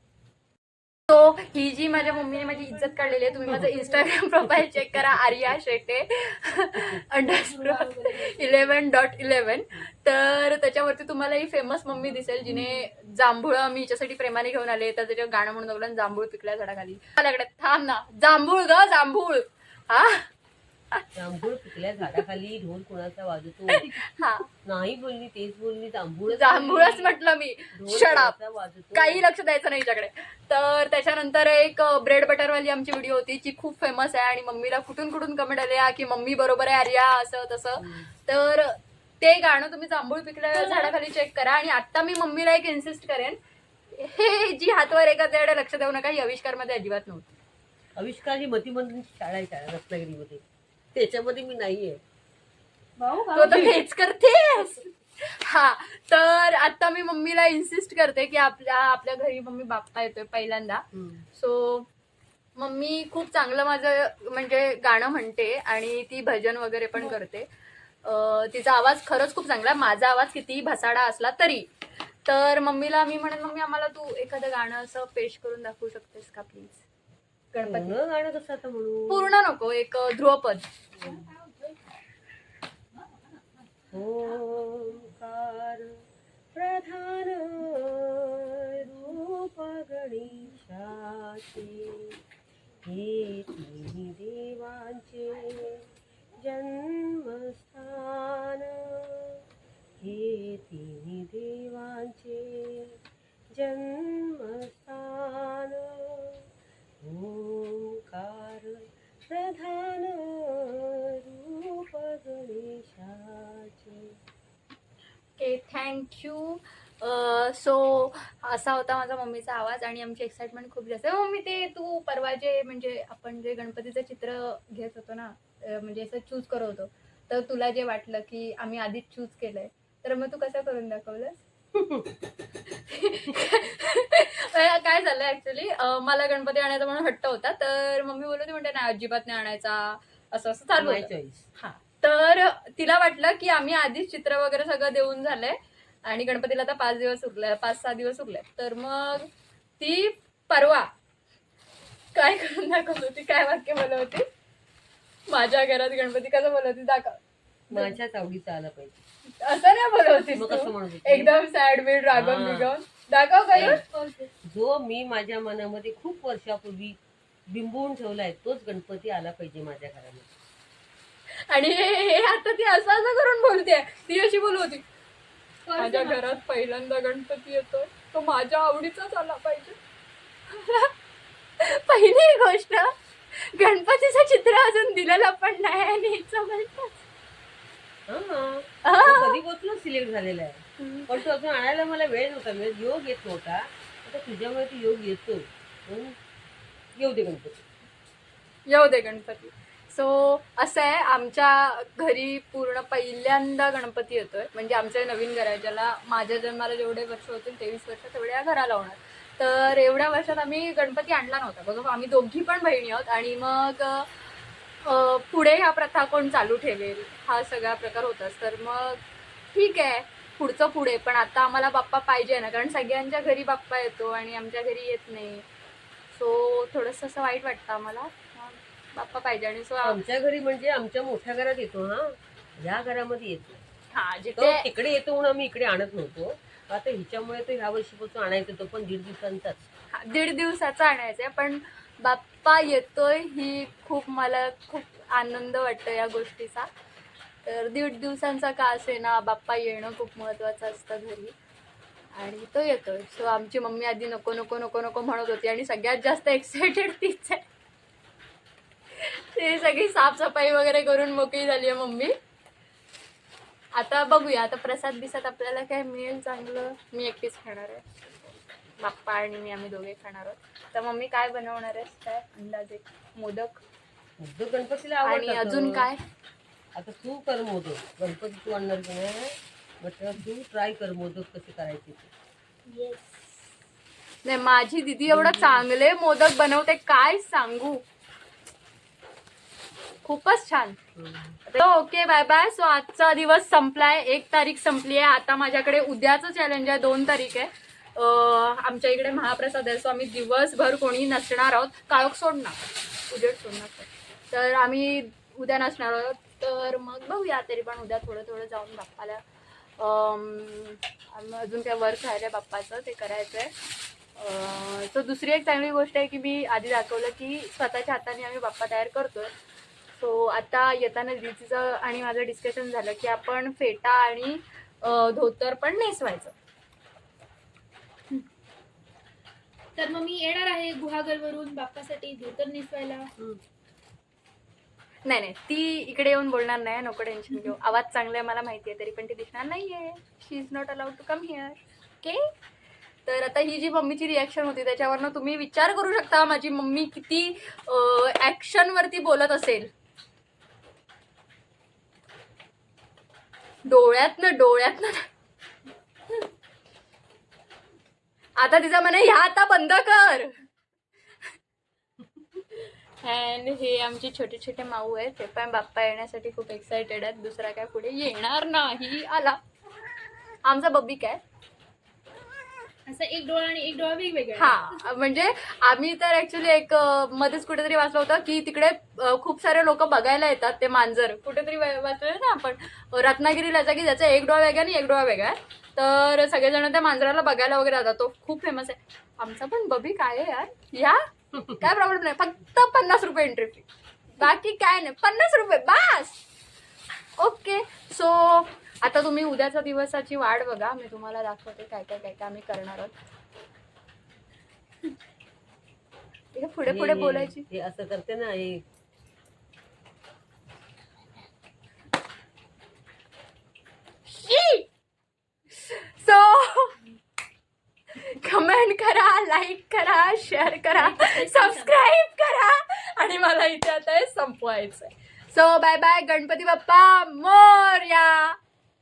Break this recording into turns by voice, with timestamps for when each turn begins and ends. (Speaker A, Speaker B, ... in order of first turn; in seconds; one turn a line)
Speaker A: 1.1-20.3
Speaker B: 1.9-3.6
Speaker B: 7.3-8.7
Speaker C: 21.1-24.0
Speaker A: 23.7-24.5
Speaker C: 24.6-27.2
Speaker A: 26.3-28.4
Speaker C: 27.8-29.2
Speaker A: 28.9-43.4
Speaker C: 37.8-38.1
Speaker B: 40.5-40.9
Speaker A: 43.9-47.3
Speaker C: 48.0-50.4
Speaker C: 50.9-52.0
Speaker B: 53.0-53.7
Speaker A: 53.3-61.9
Speaker C: 53.5-53.8
Speaker C: 60.9-61.2
Speaker A: 62.6-67.5
Speaker A: 68.0-71.7
Speaker A: 72.3-76.8
Speaker A: 77.5-78.0
Speaker C: 77.6-79.3
Speaker A: 79.1-80.7
Speaker C: 81.0-81.3
Speaker B: 81.0-81.8
Speaker C: 83.9-92.2
Speaker C: 92.9-95.9
Speaker C: 96.4-99.4
Speaker C: 100.0-103.0
Speaker C: 103.5-106.4
Speaker C: 107.0-114.2
Speaker A: 115.4-131.4
Speaker C: 131.8-132.1
Speaker A: 132.7-150.9
Speaker C: 140.8-141.5
Speaker A: 152.1-154.3
Speaker A: 155.3-157.2
Speaker A: 157.7-158.0
Speaker C: 157.7-159.0
Speaker A: 159.4-163.8
Speaker C: 160.3-161.4
Speaker C: 162.1-162.7
Speaker B: 163.5-164.3
Speaker C: 163.6-163.8
Speaker C: 164.4-170.3
Speaker A: 171.3-174.9
Speaker B: 175.7-176.4
Speaker A: 175.8-179.8
Speaker A: 180.5-180.9
Speaker A: 181.6-187.0
Speaker C: 188.1-196.2
Speaker A: 188.8-189.4
Speaker A: 190.8-191.2
Speaker C: 197.0-197.7
Speaker A: 198.7-214.1
Speaker A: 214.8-225.5
Speaker A: 226.1-230.0
Speaker C: 229.8-233.6
Speaker A: 233.9-234.7
Speaker C: 234.4-239.7
Speaker A: 239.9-246.7
Speaker A: 247.4-251.3
Speaker A: 252.1-257.4
Speaker A: 258.9-262.1
Speaker A: 263.7-273.6
Speaker C: 274.2-275.9
Speaker A: 275.0-276.0
Speaker C: 276.8-282.1
Speaker B: 282.7-283.4
Speaker A: 284.2-287.8
Speaker C: 285.1-285.7
Speaker A: 290.0-290.8
Speaker C: 291.0-291.4
Speaker A: 291.5-309.2
Speaker A: 309.8-313.5
Speaker A: 314.2-319.3
Speaker A: 320.0-326.3
Speaker B: 329.8-333.1
Speaker A: 335.0-342.3
Speaker A: 343.1-349.7
Speaker A: 353.6-355.1
Speaker A: 358.4-360.4
Speaker A: 362.5-369.4
Speaker A: 370.4-371.2
Speaker B: 372.9-374.7
Speaker A: 374.4-396.2
Speaker A: 397.2-402.9
Speaker A: 406.3-407.4
Speaker C: 406.6-408.6
Speaker A: 414.1-414.7
Speaker A: 415.5-416.8
Speaker A: 417.9-428.4
Speaker B: 420.7-421.7